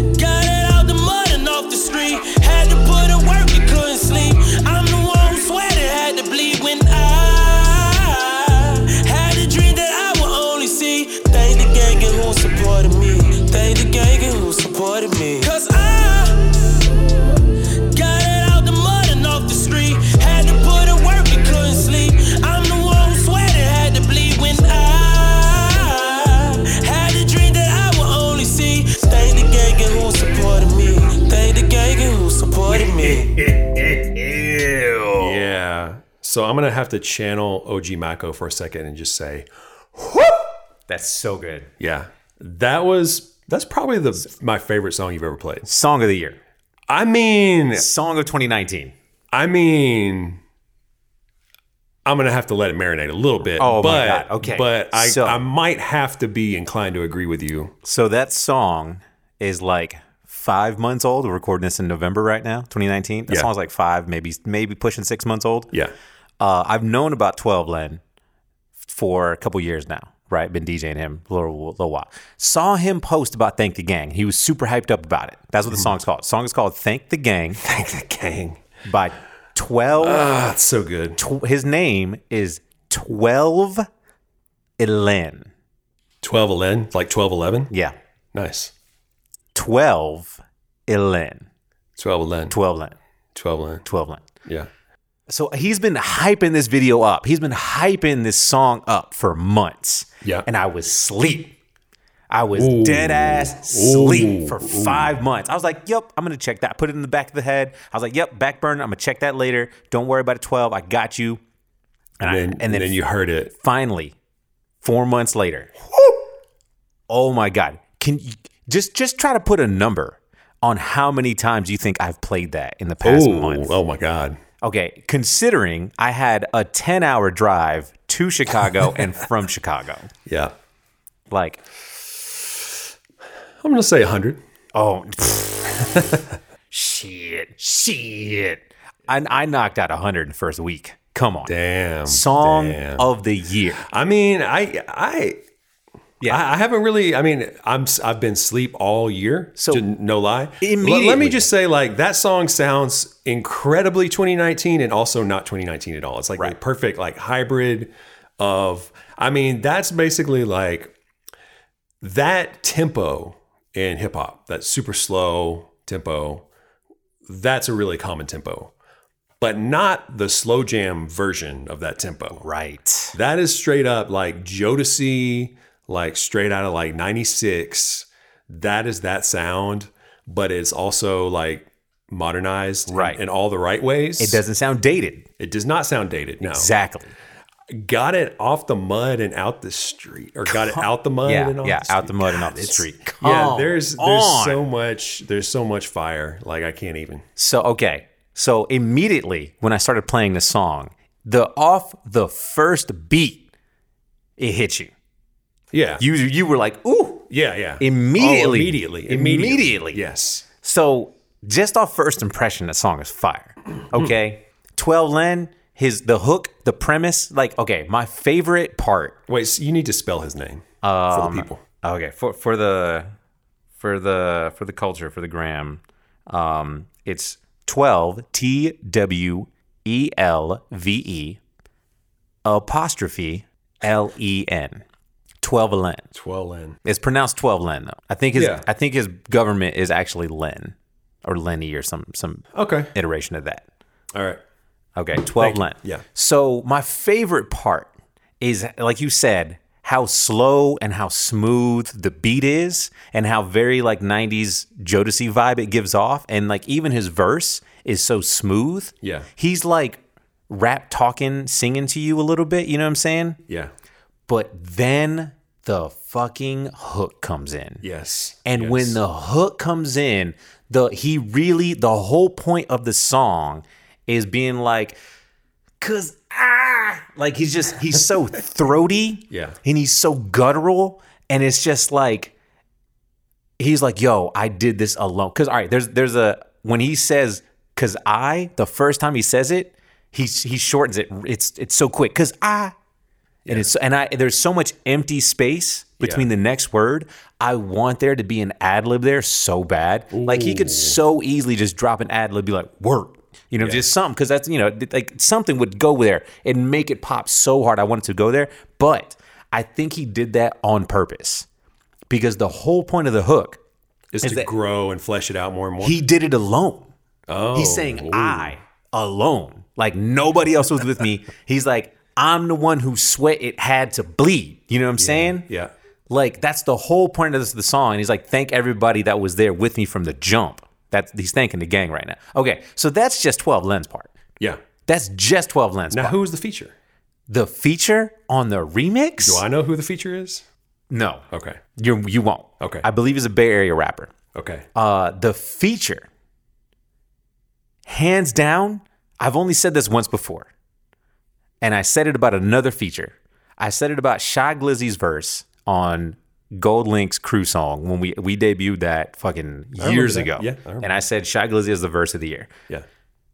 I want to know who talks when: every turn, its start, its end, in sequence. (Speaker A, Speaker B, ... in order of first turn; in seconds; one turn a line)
Speaker A: 0.1-16.8
Speaker A: 17.9-33.3
Speaker B: 32.7-35.5
Speaker C: 35.2-40.4
Speaker B: 40.9-41.7
Speaker C: 41.8-45.7
Speaker B: 45.6-46.4
Speaker C: 46.9-47.9
Speaker B: 47.7-48.9
Speaker C: 49.3-50.4
Speaker C: 52.0-57.7
Speaker B: 53.6-55.4
Speaker B: 57.8-65.7
Speaker B: 66.4-68.0
Speaker B: 68.8-77.6
Speaker C: 77.6-78.6
Speaker B: 78.8-80.3
Speaker C: 80.0-81.2
Speaker B: 81.2-83.9
Speaker B: 84.8-85.5
Speaker C: 86.2-87.7
Speaker B: 87.7-88.0
Speaker C: 88.3-88.7
Speaker B: 89.5-91.5
Speaker C: 92.0-92.5
Speaker B: 92.5-93.0
Speaker C: 93.3-93.8
Speaker B: 93.8-94.3
Speaker C: 94.4-94.7
Speaker B: 95.3-101.5
Speaker B: 102.3-111.4
Speaker C: 102.5-105.2
Speaker B: 112.2-113.0
Speaker C: 112.2-113.5
Speaker B: 113.6-114.1
Speaker B: 114.8-116.2
Speaker B: 117.1-123.8
Speaker C: 123.0-124.4
Speaker B: 124.6-130.1
Speaker C: 130.2-130.5
Speaker B: 131.3-131.6
Speaker C: 133.6-134.4
Speaker B: 134.7-136.0
Speaker B: 136.7-141.5
Speaker C: 141.4-143.1
Speaker B: 142.1-143.8
Speaker C: 143.8-145.4
Speaker C: 146.2-160.9
Speaker B: 149.6-149.8
Speaker B: 150.6-151.5
Speaker C: 162.0-166.4
Speaker C: 167.2-168.7
Speaker C: 169.4-172.4
Speaker B: 172.4-173.2
Speaker C: 173.1-184.4
Speaker B: 182.9-183.2
Speaker B: 184.2-185.3
Speaker C: 185.4-186.7
Speaker B: 186.4-187.1
Speaker C: 187.7-197.2
Speaker B: 190.5-194.6
Speaker B: 197.3-203.5
Speaker B: 204.4-204.9
Speaker C: 205.7-206.0
Speaker B: 206.0-207.3
Speaker C: 207.3-210.4
Speaker B: 207.8-210.0
Speaker B: 210.6-219.2
Speaker C: 219.3-221.6
Speaker B: 220.8-223.1
Speaker B: 223.8-231.4
Speaker B: 232.4-234.8
Speaker B: 235.4-236.1
Speaker C: 236.1-236.8
Speaker B: 236.8-243.7
Speaker C: 238.3-238.7
Speaker C: 242.5-242.9
Speaker C: 244.1-244.4
Speaker B: 244.9-263.4
Speaker C: 245.4-246.0
Speaker C: 259.0-259.3
Speaker B: 264.3-267.8
Speaker C: 267.8-269.0
Speaker B: 268.4-275.0
Speaker B: 275.8-282.3
Speaker C: 279.3-279.6
Speaker B: 283.6-292.7
Speaker B: 293.5-311.5
Speaker C: 296.0-296.2
Speaker C: 300.1-301.0
Speaker C: 303.6-303.9
Speaker B: 312.1-313.6
Speaker C: 314.1-316.0
Speaker B: 314.2-314.5
Speaker B: 315.8-316.9
Speaker C: 317.3-318.5
Speaker B: 317.5-325.4
Speaker C: 325.0-325.7
Speaker B: 326.1-334.1
Speaker B: 334.9-336.2
Speaker C: 335.9-336.7
Speaker B: 337.3-339.4
Speaker C: 339.2-340.4
Speaker B: 340.9-341.2
Speaker C: 341.3-341.6
Speaker B: 341.8-344.1
Speaker C: 342.6-342.9
Speaker C: 344.3-344.7
Speaker B: 344.7-346.1
Speaker B: 347.9-350.5
Speaker B: 351.6-362.5
Speaker C: 359.8-361.0